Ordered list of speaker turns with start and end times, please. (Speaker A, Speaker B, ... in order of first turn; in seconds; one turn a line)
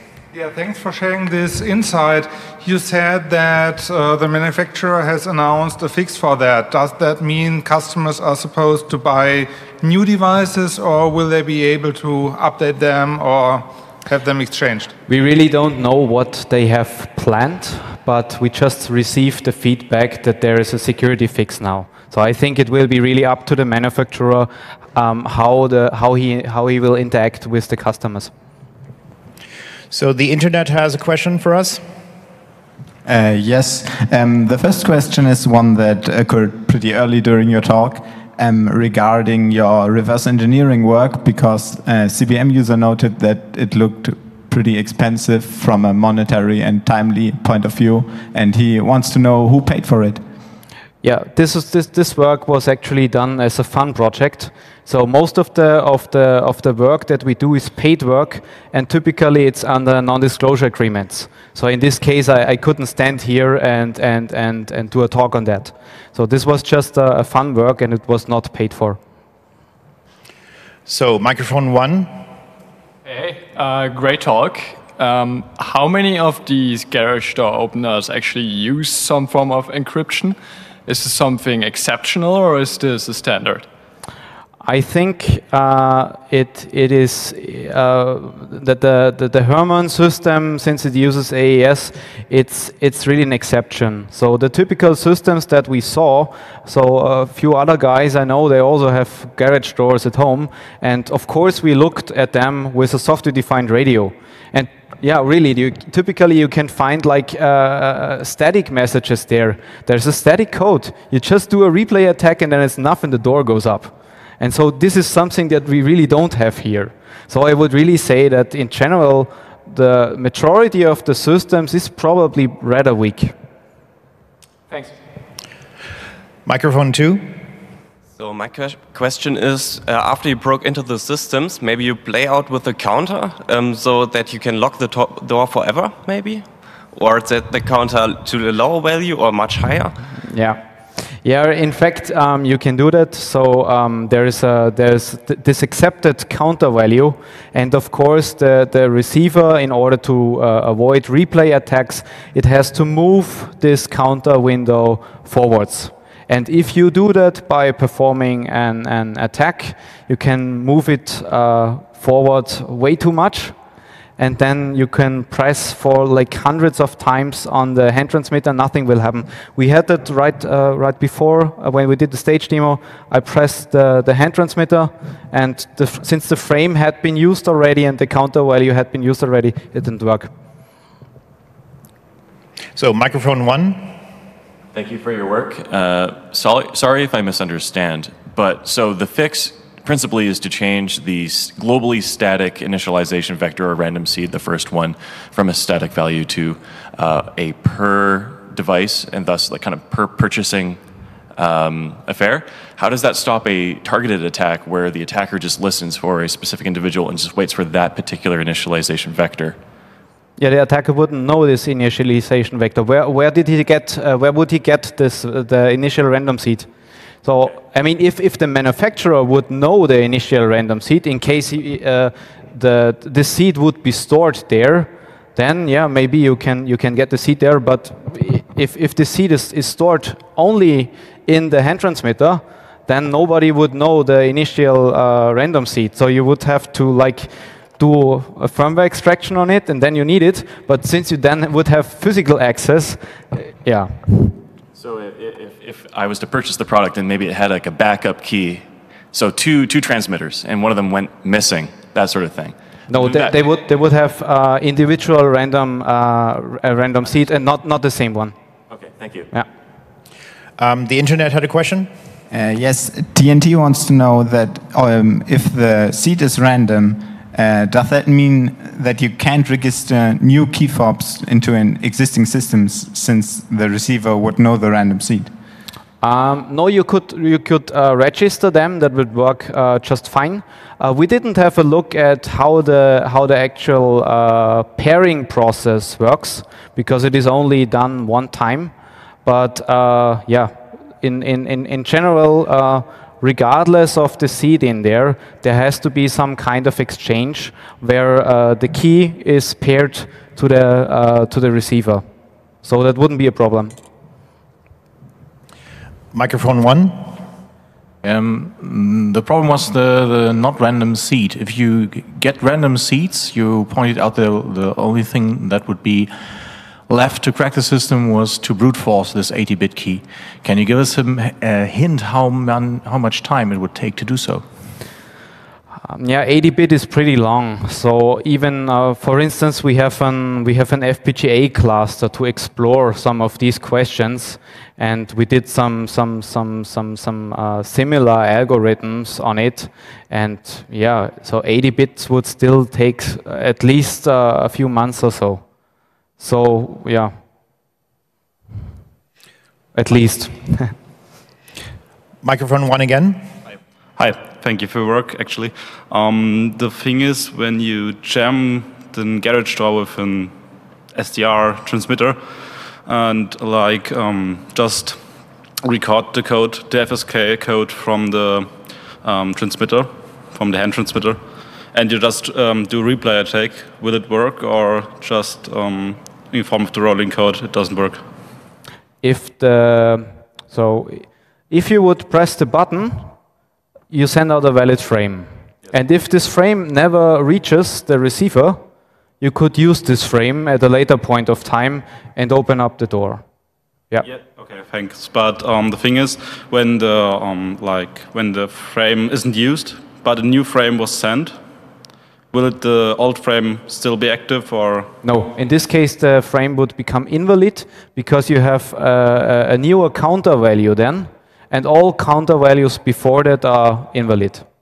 Speaker A: 0.3-14.9
Speaker B: 15.1-28.3
Speaker C: 29.9-31.8
Speaker D: 33.0-50.2
Speaker B: 51.0-69.0
Speaker C: 70.9-72.1
Speaker E: 73.0-83.7
Speaker B: 84.6-123.3
Speaker E: 124.7-125.0
Speaker C: 126.5-127.3
Speaker F: 128.2-140.0
Speaker B: 140.3-140.6
Speaker B: 141.1-163.6
Speaker B: 164.2-180.3
Speaker C: 182.8-183.9
Speaker G: 184.7-200.8
Speaker G: 201.3-209.6
Speaker B: 210.4-216.7
Speaker B: 217.2-244.4
Speaker G: 244.8-253.3
Speaker B: 252.9-258.3
Speaker G: 258.7-259.3
Speaker C: 260.6-261.9
Speaker D: 262.3-275.3
Speaker B: 276.0-288.7
Speaker B: 289.3-302.0
Speaker B: 302.6-303.8
Speaker C: 306.1-307.2
Speaker H: 308.0-324.5
Speaker B: 325.9-345.4
Speaker B: 346.2-347.1
Speaker B: 349.8-350.8
Speaker C: 352.2-353.3
Speaker I: 354.0-360.3
Speaker I: 360.9-362.2
Speaker I: 362.9-365.0
Speaker I: 365.6-371.2
Speaker I: 371.7-378.0
Speaker B: 379.0-383.1
Speaker B: 383.9-388.6
Speaker B: 389.2-393.2
Speaker I: 394.0-401.4
Speaker I: 402.3-404.9
Speaker B: 405.0-414.4